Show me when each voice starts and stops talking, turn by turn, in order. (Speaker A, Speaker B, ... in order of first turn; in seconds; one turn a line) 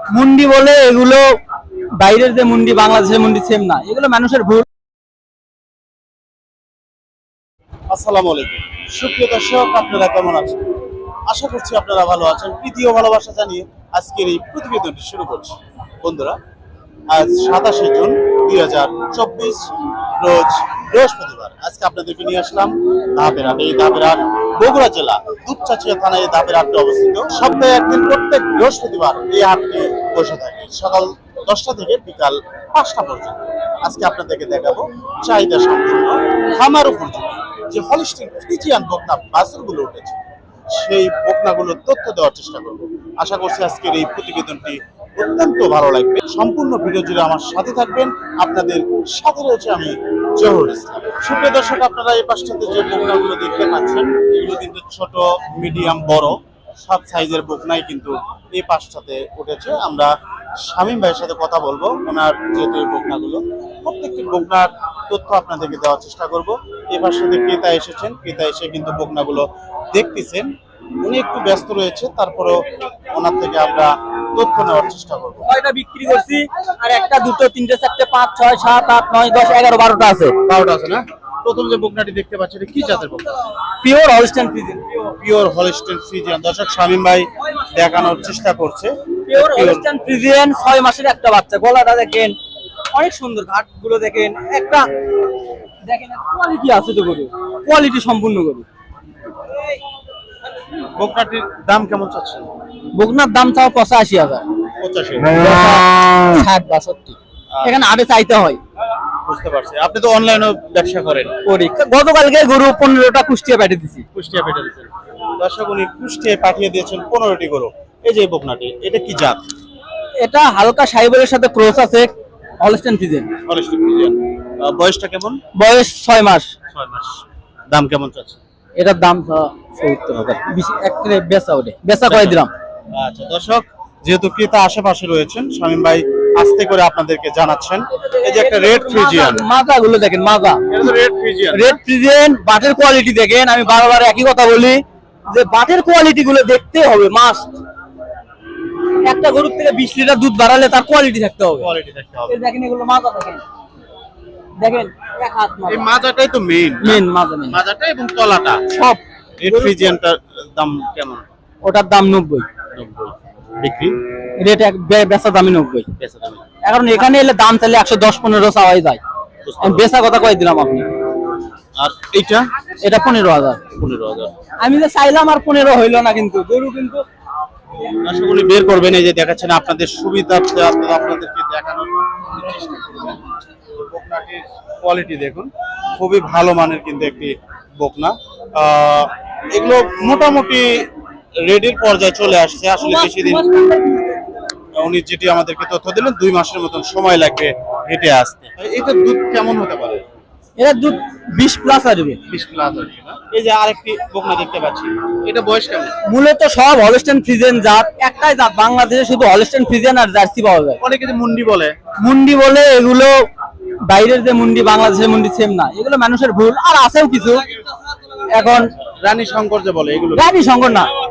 Speaker A: 0.1-1.2
Speaker A: 2.0-4.7
Speaker B: 7.9-10.6
Speaker B: 11.3-16.4
Speaker B: 17.1-19.7
Speaker B: 20.2-40.2
Speaker B: 40.8-60.1
Speaker B: 60.6-70.5
Speaker B: 71.0-75.5
Speaker A: 75.4-80.3
Speaker B: 80.4-83.4
Speaker A: 83.8-85.0
Speaker B: 85.2-89.9
Speaker A: 89.3-92.3
Speaker A: 92.9-94.9
Speaker A: 95.8-98.7
Speaker B: 101.0-102.5
Speaker A: 103.0-104.4
Speaker B: 104.8-105.3
Speaker A: 105.3-108.6
Speaker B: 107.5-107.8
Speaker B: 109.2-111.3
Speaker A: 111.4-114.0
Speaker B: 114.1-119.4
Speaker A: 120.2-122.1
Speaker A: 122.6-123.3
Speaker B: 123.5-125.4
Speaker A: 125.5-126.5
Speaker B: 126.7-128.4
Speaker A: 128.8-132.5
Speaker B: 132.1-132.4
Speaker B: 132.9-139.4
Speaker A: 137.9-140.6
Speaker B: 140.7-141.8
Speaker A: 141.5-147.6
Speaker A: 149.0-151.7
Speaker B: 151.6-152.4
Speaker A: 152.3-153.4
Speaker A: 154.6-155.9
Speaker B: 155.7-158.6
Speaker A: 156.8-157.6
Speaker A: 158.7-159.8
Speaker B: 159.4-161.2
Speaker A: 161.6-162.4
Speaker B: 162.7-163.9
Speaker A: 164.4-165.9
Speaker B: 166.0-166.4
Speaker A: 166.6-169.0
Speaker B: 169.4-169.9
Speaker A: 169.6-170.8
Speaker B: 171.8-172.4
Speaker A: 172.8-173.6
Speaker B: 173.7-174.3
Speaker A: 174.6-177.0
Speaker B: 178.0-183.2
Speaker B: 183.7-190.8
Speaker B: 191.4-193.4
Speaker A: 192.8-194.2
Speaker B: 194.8-200.0
Speaker A: 200.6-202.2
Speaker B: 202.3-206.0
Speaker A: 206.1-210.8
Speaker B: 210.8-211.7
Speaker A: 212.0-213.1
Speaker A: 213.9-217.4
Speaker A: 218.3-218.7
Speaker B: 218.7-220.3
Speaker A: 220.1-220.9